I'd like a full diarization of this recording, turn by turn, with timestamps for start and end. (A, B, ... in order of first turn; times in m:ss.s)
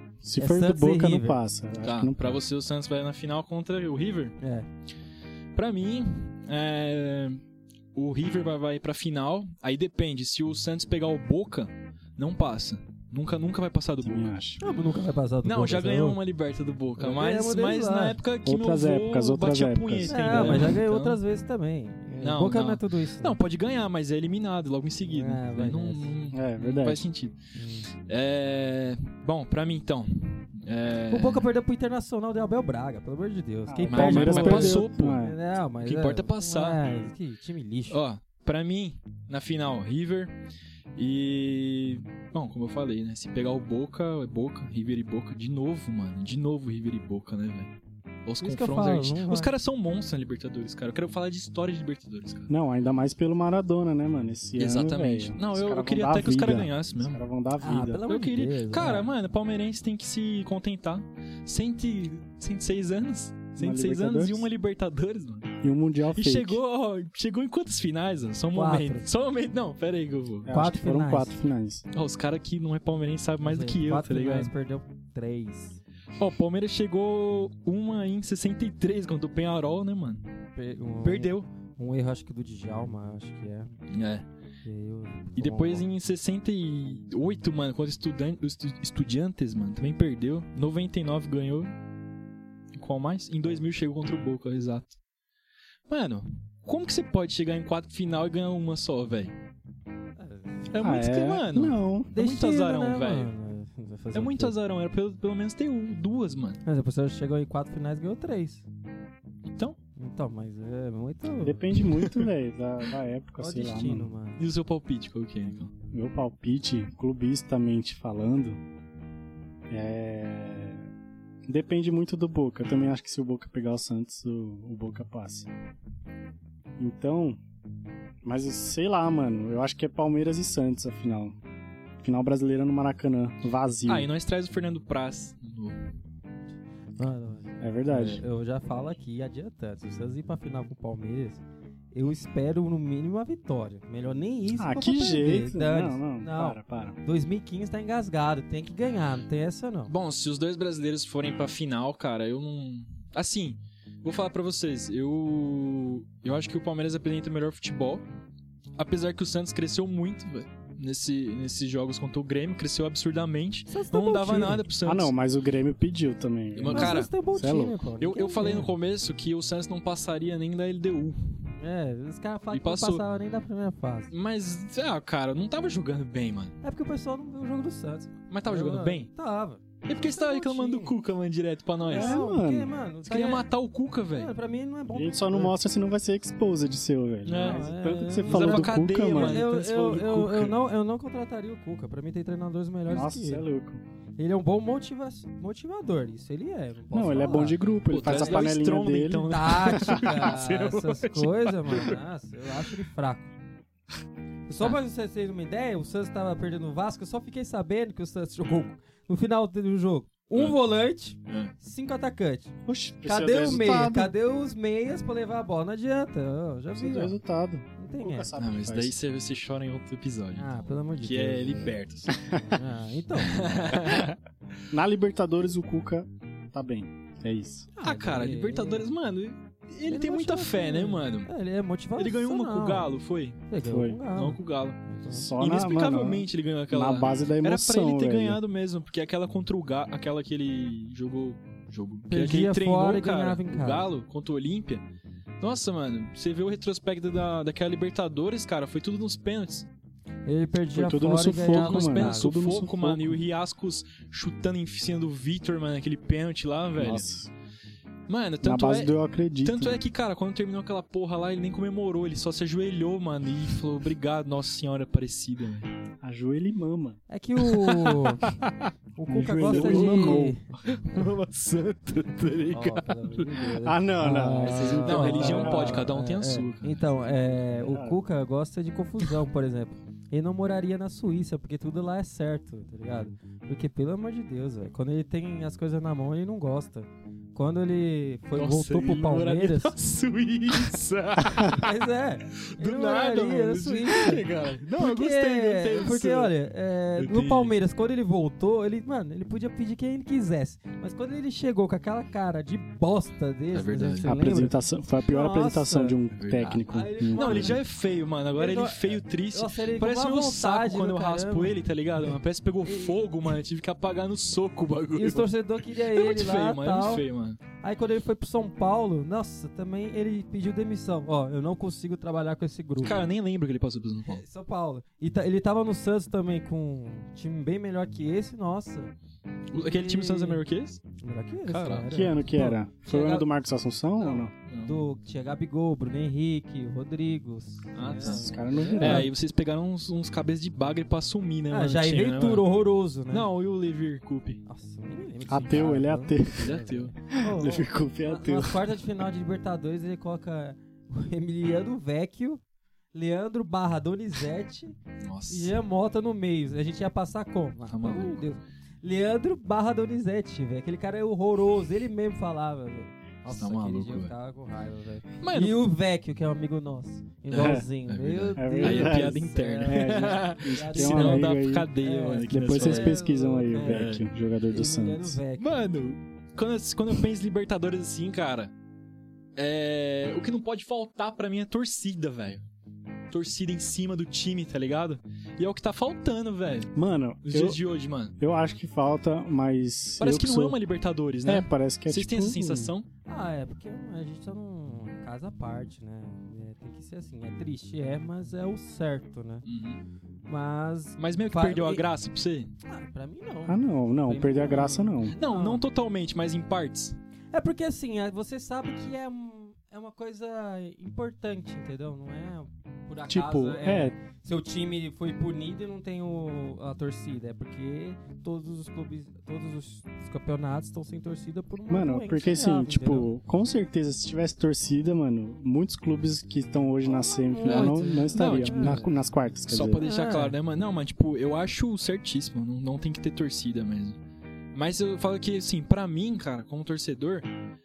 0:00.2-0:02.4 A
0:00.4-0:01.4 B
0:01.8-0:04.4 C
0:04.4-0:04.7 B
0:05.6-0:07.4 C
0:07.9-0:14.8 C
0:14.0-0:14.6 A
0:14.6-0:16.2 B
0:15.4-0:21.2 C
0:17.0-0:18.2 B
0:18.4-0:20.8 A
0:20.1-0:23.4 B
0:22.2-0:27.4 C
0:25.1-0:26.1 B
0:26.3-0:27.1 A
0:27.6-0:27.9 B
0:28.0-0:31.5 C
0:31.1-0:38.0 B
0:33.7-0:35.4 A
0:33.9-0:35.2 C
0:35.8-0:36.8 C
0:37.9-0:40.3 C
0:41.0-0:47.7 C
0:48.2-0:52.5 C
0:48.4-0:49.5 B
0:52.5-0:58.0 A
0:54.6-0:57.2 C
0:57.6-0:59.1 B
0:58.1-1:05.6 C
1:03.6-1:04.5 A
1:05.6-1:06.6 A
1:06.1-1:10.5 C
1:08.5-1:09.0 B
1:10.4-1:11.8 A
1:10.5-1:11.4 B
1:11.9-1:14.5 C
1:13.4-1:15.8 B
1:16.2-1:20.2 C
1:20.6-1:23.7 B
1:21.0-1:21.5 C
1:23.9-1:24.3 C
1:24.6-1:25.9 B
1:25.4-1:31.7 C
1:32.8-1:35.0 C
1:35.9-1:39.3 C
1:40.2-1:40.7 B
1:40.7-1:43.3 C
1:40.8-1:42.1 A
1:42.1-1:44.5 B
1:44.1-1:46.6 C
1:46.6-1:48.7 B
1:49.4-1:49.8 C
1:50.0-1:51.6 B
1:51.4-1:54.1 A
1:51.8-1:52.3 C
1:53.4-1:54.4 B
1:54.4-1:55.7 C
1:55.9-1:58.6 A
1:59.7-2:00.9 A
2:01.5-2:05.5 A
2:06.8-2:07.4 A
2:08.2-2:11.4 A
2:12.0-2:14.1 A
2:13.9-2:15.8 C
2:17.0-2:21.4 B
2:17.6-2:18.2 A
2:21.9-2:29.9 B
2:24.5-2:27.0 A
2:29.9-2:38.0 C
2:38.8-2:45.1 C
2:43.7-2:44.7 B
2:44.8-2:47.8 A
2:46.6-2:47.1 C
2:46.7-2:48.7 B
2:48.0-2:51.5 C
2:51.6-2:54.1 B
2:52.5-2:53.0 C
2:54.1-2:56.6 C
2:56.6-3:01.0 B
2:58.3-2:59.1 C
2:59.9-3:02.2 C
3:01.8-3:03.4 B
3:01.9-3:02.7 A
3:03.0-3:04.3 C
3:04.1-3:05.6 B
3:04.9-3:09.4 A
3:07.2-3:07.7 C
3:07.4-3:13.5 B
3:08.3-3:10.6 C
3:12.9-3:13.8 A
3:14.2-3:18.5 B
3:16.9-3:20.0 A
3:17.9-3:22.0 C
3:19.2-3:23.3 B
3:24.5-3:37.2 B
3:31.3-3:31.5 C
3:32.7-3:34.1 A
3:36.8-3:39.0 A
3:37.8-3:38.3 B
3:38.4-3:42.4 C
3:40.4-3:41.8 B
3:42.4-3:43.8 B
3:43.2-3:44.2 C
3:44.7-3:47.7 A
3:47.8-3:48.9 B
3:47.8-3:51.3 C
3:49.9-3:52.9 B
3:52.0-3:53.4 C
3:53.5-3:55.3 B
3:53.6-3:54.0 A
3:54.1-3:54.8 C
3:55.1-3:58.4 A
3:55.4-4:04.8 C
4:02.1-4:03.9 B
4:05.4-4:09.7 C
4:10.3-4:12.3 B
4:10.7-4:13.2 A
4:11.4-4:17.1 C
4:16.8-4:17.3 A
4:18.1-4:25.7 C
4:18.4-4:19.8 A
4:26.0-4:27.0 A
4:27.1-4:28.3 B
4:27.6-4:28.7 C
4:29.0-4:30.5 B
4:29.1-4:30.4 A
4:29.5-4:33.4 C
4:32.5-4:49.8 B
4:33.6-4:35.9 A
4:34.4-4:36.9 C
4:37.6-4:38.0 A
4:48.3-4:51.7 C
4:51.5-4:54.3 B
4:52.4-4:56.4 C
4:54.8-5:06.0 B
4:57.0-4:57.5 C
5:03.5-5:04.1 C
5:04.1-5:07.6 A
5:06.2-5:06.6 C
5:06.6-5:07.6 B
5:07.1-5:15.3 C
5:08.4-5:11.6 B
5:12.7-5:13.0 B
5:15.0-5:17.0 B
5:15.9-5:17.4 C
5:17.6-5:23.0 B
5:22.8-5:24.2 C
5:24.1-5:28.9 B
5:29.5-5:30.8 C
5:29.5-5:30.4 B
5:31.0-5:33.3 B
5:31.5-5:31.9 C
5:31.9-5:34.3 A
5:34.0-5:39.1 B
5:34.5-5:34.8 C
5:37.8-5:42.5 C
5:38.0-5:39.1 A
5:41.5-5:43.3 B
5:43.1-5:44.4 C
5:44.5-5:52.4 B
5:45.3-5:46.5 A
5:45.3-5:45.6 C
5:46.4-5:46.9 C
5:47.1-5:48.6 A
5:52.9-5:54.8 B
5:55.0-5:55.6 C
5:55.3-6:13.9 B
5:57.7-5:58.2 C
6:03.3-6:04.1 C
6:05.2-6:05.6 C
6:07.3-6:13.0 C
6:07.3-6:07.7 A
6:08.4-6:11.7 A
6:12.3-6:15.2 A
6:13.5-6:14.1 C
6:14.5-6:15.6 B
6:15.4-6:18.5 C
6:19.4-6:22.4 C
6:23.1-6:28.2 C
6:26.8-6:27.6 A
6:28.2-6:30.6 A
6:30.0-6:32.9 C
6:31.3-6:32.7 A
6:33.1-6:39.5 B
6:39.4-6:39.8 C
6:40.3-6:41.8 B
6:41.0-6:42.5 C
6:42.6-6:45.6 B
6:43.5-6:45.2 A
6:45.2-6:47.0 C
6:47.3-7:03.1 B
6:53.1-6:54.0 A
7:01.7-7:09.8 A
7:06.8-7:08.9 B
7:07.4-7:08.9 C
7:09.5-7:14.0 C
7:09.8-7:10.4 B
7:14.5-7:17.3 C